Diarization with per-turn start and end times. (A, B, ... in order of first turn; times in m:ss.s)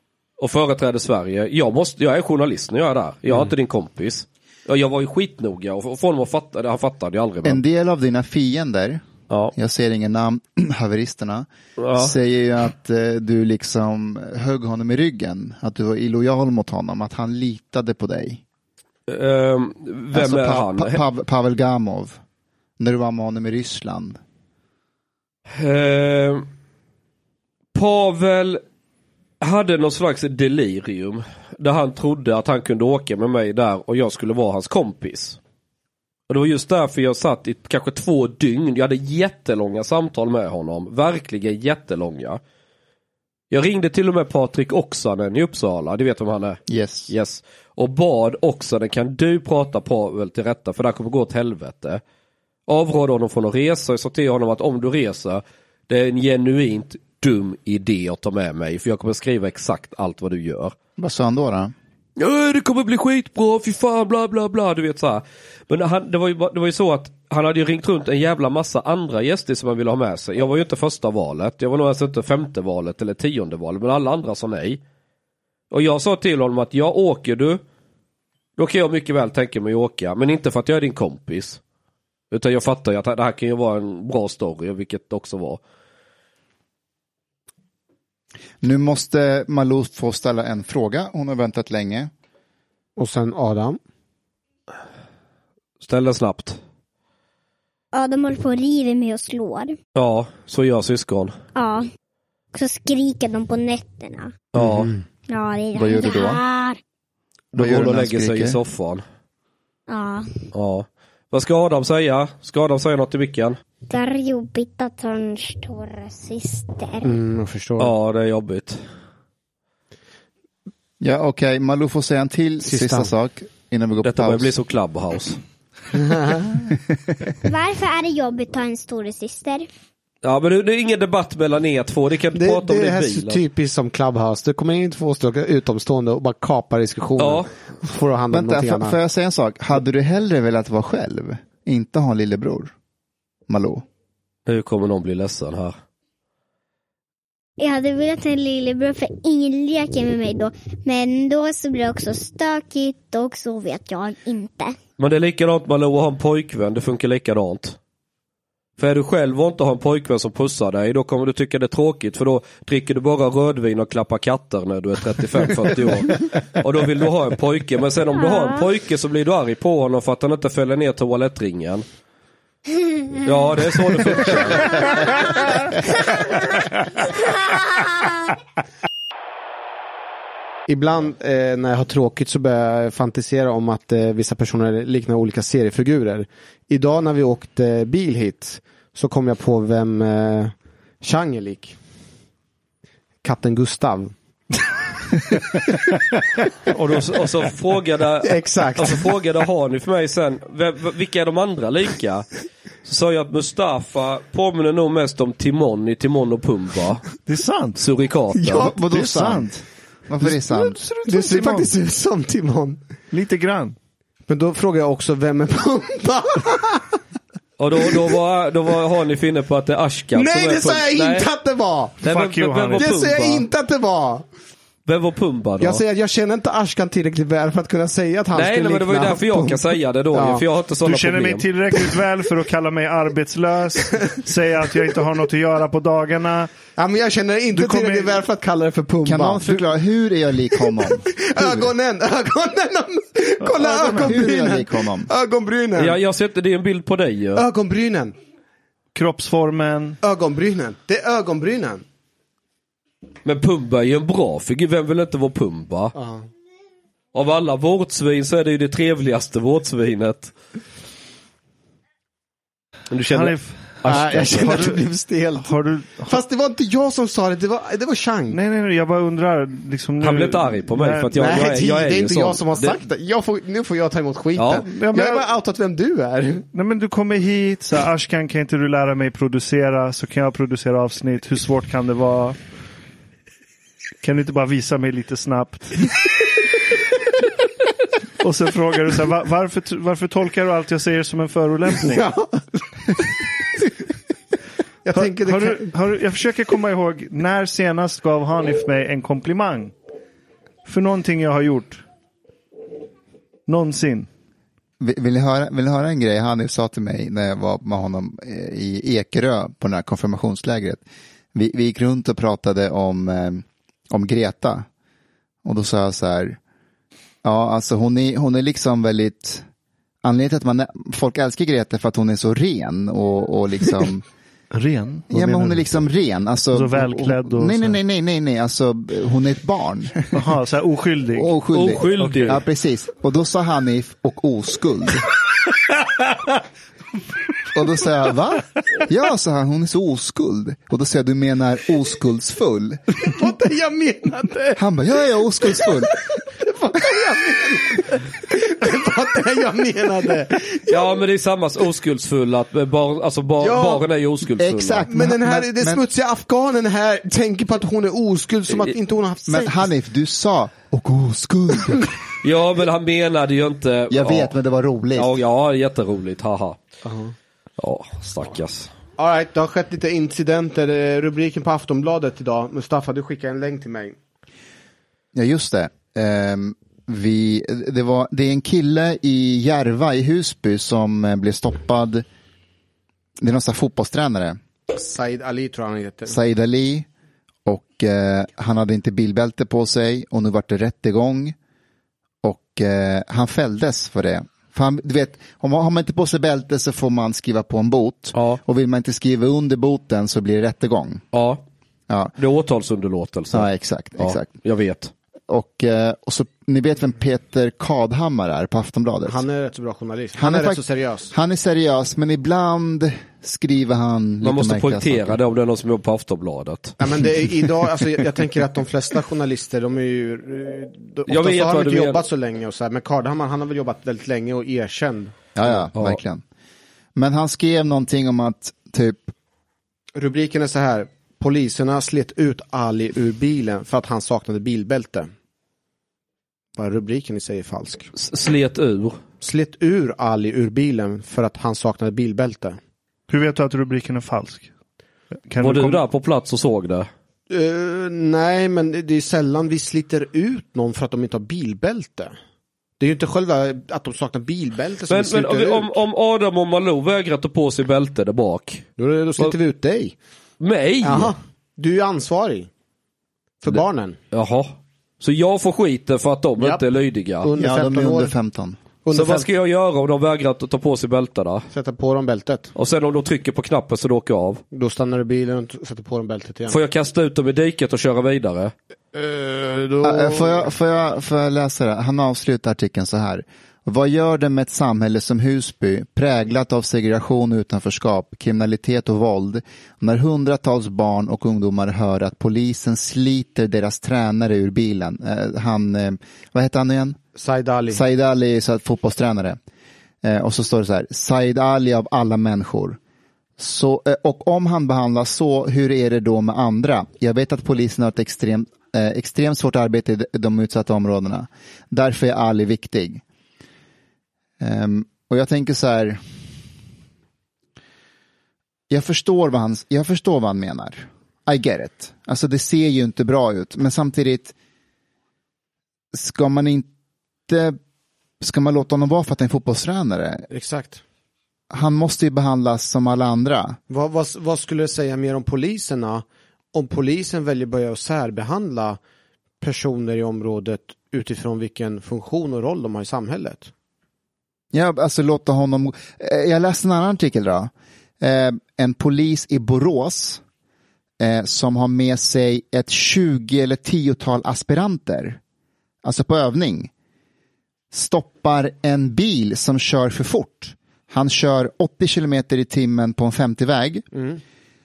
0:00.4-0:07.6 A
0:07.4-0:09.0 B
0:09.5-0:18.4 B
0:11.8-0:12.2 A
0:19.1-0:21.0 A
0:20.1-0:22.2 B
0:22.8-0:24.2 B
0:25.5-0:26.4 A
0:27.7-0:28.6 A
0:29.4-0:35.4 A
0:36.3-0:42.4 A
0:43.5-0:52.0 A
0:46.7-0:47.1 B
0:52.7-1:00.8 A
1:01.0-1:01.7 B
1:02.2-1:14.8 A
1:15.7-1:17.6 A
1:18.6-1:21.6 A
1:22.3-1:25.6 A
1:28.6-1:32.1 B
1:33.0-1:33.8 C
1:35.8-1:36.6 A
1:37.9-1:39.8 D
1:40.0-1:41.4 A
1:41.6-1:41.9 D
1:42.5-1:44.3 D
1:44.5-1:44.9 A
1:45.3-1:46.8 D
1:45.7-1:46.4 B
1:47.5-1:49.0 A
1:47.6-1:48.6 B
1:49.9-1:50.3 D
1:50.5-1:53.6 A
1:53.9-1:57.1 D
1:57.0-1:57.9 C
1:57.8-1:58.8 A
2:01.0-2:04.6 B
2:02.6-2:03.1 C
2:04.0-2:05.4 A
2:06.0-2:06.5 C
2:07.4-2:09.7 D
2:10.2-2:13.4 A
2:12.3-2:19.0 C
2:17.2-2:17.5 A
2:18.3-2:22.7 B
2:23.5-2:23.8 B
2:24.5-2:25.7 A
2:27.6-2:34.8 D
2:35.0-2:37.8 A
2:38.8-2:51.8 A
2:48.3-2:48.6 D
2:53.2-2:55.0 A
3:00.7-3:11.8 C
3:13.2-3:14.1 C
3:16.7-3:22.3 A
3:18.2-3:19.1 C
3:22.8-3:27.1 A
3:27.2-3:27.8 E
3:27.8-3:28.7 A
3:28.5-3:30.8 B
3:28.5-3:29.5 E
3:30.2-3:31.7 E
3:31.1-3:32.8 C
3:33.1-3:33.8 E
3:34.3-3:37.0 C
3:37.6-3:41.3 A
3:40.2-3:42.0 C
3:42.0-3:43.5 A
3:42.0-3:42.9 E
3:42.8-3:44.2 C
3:44.9-3:45.8 A
3:45.6-3:50.4 C
3:48.3-3:51.5 A
3:50.8-3:56.5 E
3:56.8-3:59.7 C
3:57.6-3:58.2 E
3:59.0-4:01.7 B
4:00.8-4:06.0 C
4:03.4-4:04.1 E
4:03.8-4:05.1 B
4:05.8-4:07.4 A
4:07.4-4:08.1 C
4:09.0-4:10.0 E
4:10.0-4:11.8 C
4:13.2-4:15.9 A
4:16.0-4:16.3 C
4:17.1-4:20.3 A
4:22.9-4:24.6 A
4:23.1-4:24.8 E
4:23.8-4:28.4 C
4:25.4-4:26.2 E
4:28.3-4:31.2 E
4:30.0-4:32.8 A
4:31.2-4:36.5 C
4:34.4-4:34.6 A
4:34.7-4:35.2 E
4:36.5-4:42.4 E
4:44.0-4:46.0 E
4:48.2-4:52.1 E
4:51.8-4:53.1 C
4:54.8-4:55.7 C
4:55.0-4:59.7 E
5:00.6-5:01.8 E
5:03.5-5:04.1 E
5:04.8-5:10.8 B
5:11.3-5:14.7 B
5:15.4-5:16.4 B
5:17.2-5:19.4 B
5:20.0-5:24.0 B
5:24.5-5:25.6 E
5:25.1-5:30.4 B
5:26.5-5:27.8 E
5:30.1-5:31.4 E
5:31.1-5:35.1 B
5:31.5-5:32.4 A
5:32.0-5:32.3 E
5:37.5-5:42.8 B
5:43.0-5:44.6 C
5:44.6-5:46.0 B
5:45.4-5:50.9 C
5:50.7-5:54.9 A
5:53.4-5:53.9 C
5:54.4-5:55.8 B
5:54.9-5:59.7 C
5:59.3-6:01.9 B
6:02.2-6:04.3 A
6:03.9-6:05.2 B
6:05.0-6:06.6 A
6:06.8-6:07.1 C
6:07.6-6:08.7 A
6:09.0-6:14.0 C
6:15.1-6:22.0 B
6:23.2-6:24.4 B
6:24.7-6:26.2 C
6:26.1-6:26.9 B
6:27.5-6:31.4 B
6:32.2-6:41.0 B
6:38.1-6:38.4 A
6:41.1-6:41.4 A
6:42.2-6:44.9 A
6:43.3-6:44.3 B
6:45.3-6:49.2 B
6:49.1-6:51.1 C
6:50.2-6:55.2 B
6:54.2-6:56.8 A
6:56.8-7:05.1 C
7:01.1-7:02.0 A
7:05.4-7:06.2 B
7:05.8-7:06.0 A
7:07.0-7:09.1 B
7:10.0-7:15.1 C
7:16.6-7:17.9 C
7:18.0-7:19.0 A
7:19.2-7:22.6 C
7:23.1-7:24.5 E
7:25.3-7:25.8 E
7:25.4-7:26.9 A
7:27.3-7:32.1 C
7:32.8-7:35.8 C
7:34.9-7:38.6 A
7:38.8-7:40.0 C
7:40.4-7:41.1 A
7:40.8-7:42.5 C
7:43.4-7:44.0 C
7:44.1-7:47.3 A
7:46.4-7:46.6 C
7:47.2-7:48.1 C
7:47.4-7:48.6 B
7:48.8-7:49.3 C
7:48.9-7:51.5 A
7:51.5-7:52.5 C
7:52.6-7:54.4 A
7:54.5-7:56.6 C
7:56.5-7:58.5 A
7:58.9-8:00.5 C
7:59.8-8:17.0 B
8:17.2-8:17.8 C
8:17.7-8:19.4 B
8:20.0-8:22.8 B
8:23.4-8:33.0 B
8:34.4-8:36.0 B
8:38.7-8:44.4 B
8:45.9-8:46.7 B
8:47.3-8:47.6 B
8:48.2-8:50.3 B
8:50.3-8:50.8 C
8:51.5-8:53.6 B
8:53.7-8:58.8 C
8:59.4-9:03.5 C
9:04.5-9:10.2 B
9:11.0-9:15.2 B
9:15.8-9:16.7 B
9:17.7-9:23.9 B
9:23.9-9:24.2 C